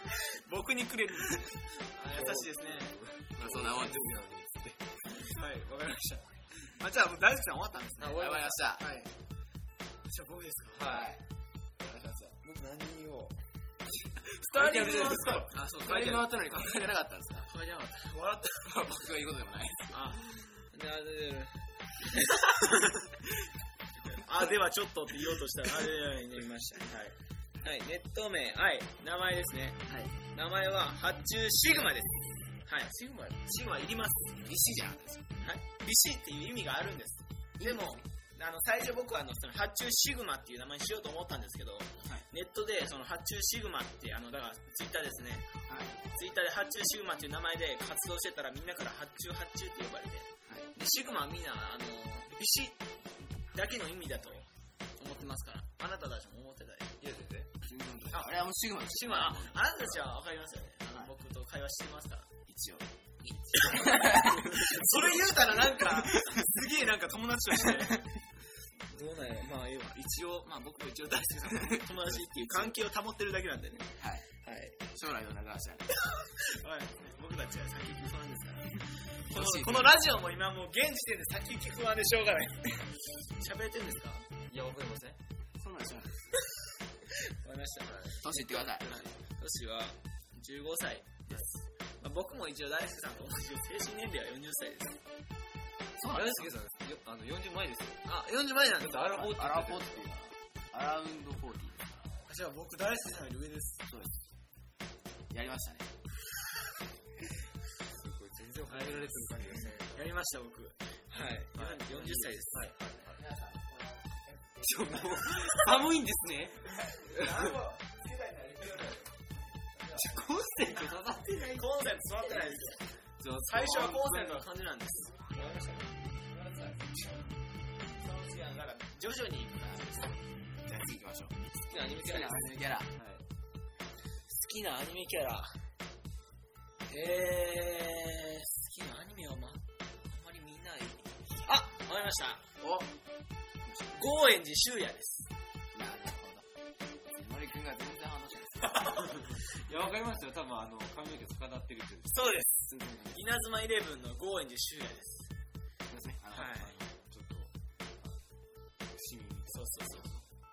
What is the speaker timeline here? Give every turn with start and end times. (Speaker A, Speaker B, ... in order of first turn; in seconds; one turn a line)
Speaker A: 0.3-2.9
Speaker B: 2.1-4.8
Speaker C: 3.4-4.2
Speaker A: 5.2-8.5
Speaker B: 8.0-8.6
Speaker C: 8.1-9.1
Speaker A: 10.1-11.1
Speaker B: 10.7-11.2
Speaker C: 10.8-11.2
Speaker C: 11.8-12.4
Speaker A: 12.4-13.4
Speaker C: 14.3-17.5
Speaker A: 14.4-16.6
Speaker B: 14.6-15.4
Speaker A: 17.4-18.8
Speaker C: 18.6-20.2
Speaker A: 19.9-23.2
Speaker A: 24.1-27.0
Speaker B: 26.9-27.1
Speaker A: 27.6-34.5
Speaker B: 32.9-33.4
Speaker C: 34.4-35.3
Speaker A: 35.4-45.5
Speaker C: 37.6-38.0
Speaker C: 45.7-46.0
Speaker A: 46.1-52.8
Speaker A: 53.4-56.9
Speaker B: 57.0-57.5
Speaker C: 57.6-60.0
Speaker A: 58.1-62.3
Speaker C: 60.9-61.1
Speaker C: 62.5-62.9
Speaker A: 63.2-68.1
Speaker C: 63.7-64.9
Speaker A: 68.9-74.8
Speaker C: 71.5-72.7
Speaker C: 74.0-74.3
Speaker C: 74.9-75.9
Speaker A: 76.2-84.3
Speaker C: 79.3-80.0
Speaker B: 84.5-85.2
Speaker C: 85.6-86.3
Speaker A: 87.2-95.0
Speaker B: 87.8-88.2
Speaker C: 88.2-89.1
Speaker C: 96.0-96.5
Speaker B: 96.0-98.0
Speaker A: 98.0-99.2
Speaker B: 98.7-100.1
Speaker C: 99.1-102.2
Speaker A: 102.3-103.8
Speaker C: 103.9-104.1
Speaker C: 105.3-105.9
Speaker B: 107.9-110.1
Speaker A: 108.7-109.3
Speaker A: 109.9-112.7
Speaker B: 111.5-113.2
Speaker C: 113.0-115.2
Speaker B: 114.6-117.5
Speaker A: 117.0-119.1
Speaker A: 119.8-120.1
Speaker B: 119.9-121.7
Speaker A: 121.4-122.9
Speaker B: 123.2-124.4
Speaker A: 123.4-127.2
Speaker A: 128.0-130.2
Speaker C: 130.6-132.9
Speaker A: 131.7-132.4
Speaker B: 132.9-133.2
Speaker A: 134.3-135.7
Speaker A: 136.9-142.4
Speaker C: 142.6-142.9
Speaker C: 143.6-144.1
Speaker A: 143.9-145.3
Speaker C: 145.7-146.5
Speaker C: 147.1-149.2
Speaker B: 149.0-152.4
Speaker A: 152.1-155.3
Speaker C: 152.7-153.2
Speaker C: 155.9-156.8
Speaker A: 156.3-156.8
Speaker B: 156.8-158.1
Speaker B: 158.9-159.6
Speaker A: 159.5-160.2